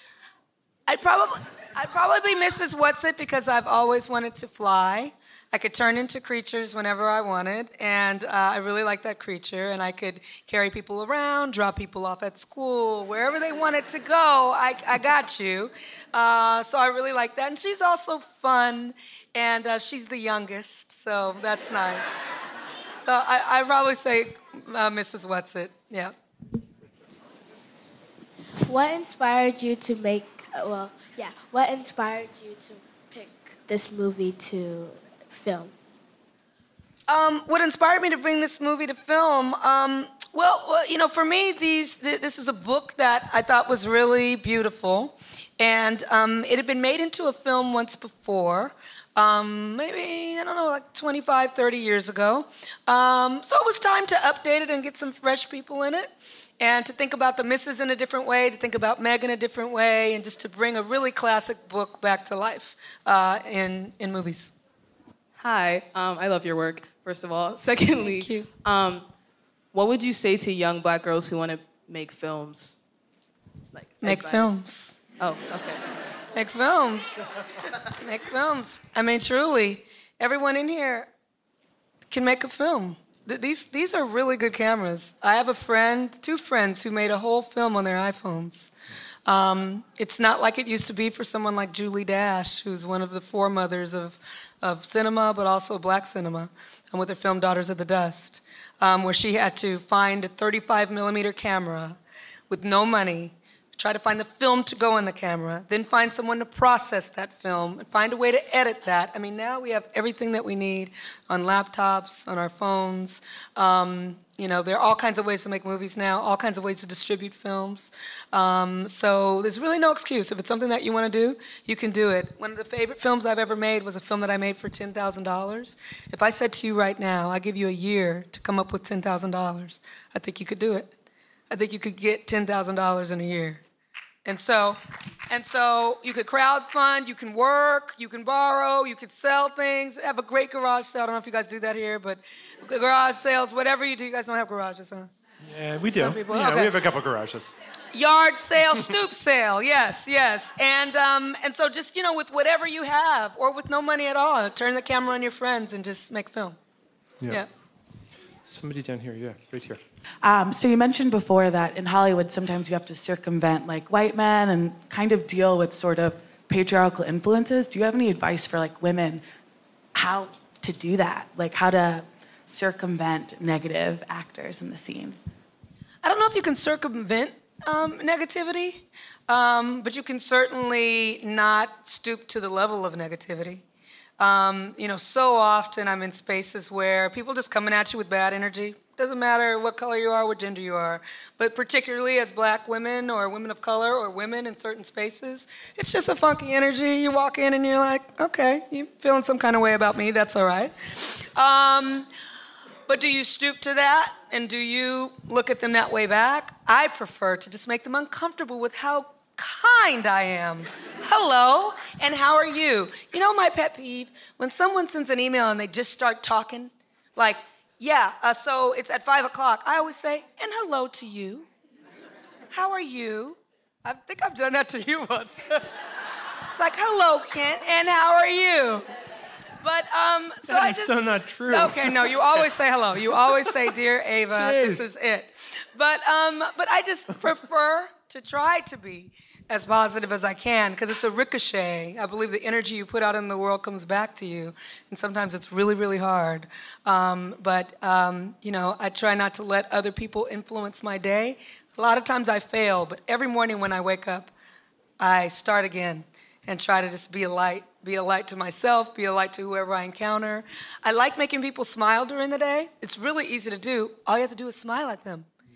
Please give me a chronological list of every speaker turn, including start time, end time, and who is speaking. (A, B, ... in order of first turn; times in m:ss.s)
0:00.9-0:22.2 A
0:22.9-0:26.1 A
0:28.6-0:35.7 B
0:37.1-1:04.5 A
1:05.4-1:09.1 C
1:08.0-1:08.5 A
1:09.7-1:12.8 C
1:13.7-1:14.6 C
1:14.0-1:15.0 A
1:15.2-1:15.8 C
1:16.3-1:21.1 A
1:22.1-1:28.7 A
1:29.2-1:42.0 A
1:42.5-2:10.9 A
2:11.5-2:13.6 A
2:14.2-2:25.1 A
2:25.4-2:27.5 D
2:25.9-2:26.7 A
2:27.9-2:36.6 A
2:38.4-2:39.8 D
2:40.2-2:49.2 E
2:49.9-2:55.2 E
2:56.0-3:03.6 A
3:04.2-3:22.1 A
3:22.9-3:41.5 A
3:42.5-3:45.6 A
3:46.5-3:48.8 A
3:49.6-3:51.0 A
3:50.4-3:52.4 D
3:51.5-4:14.3 A
3:54.3-3:54.8 D
4:15.0-4:25.3 A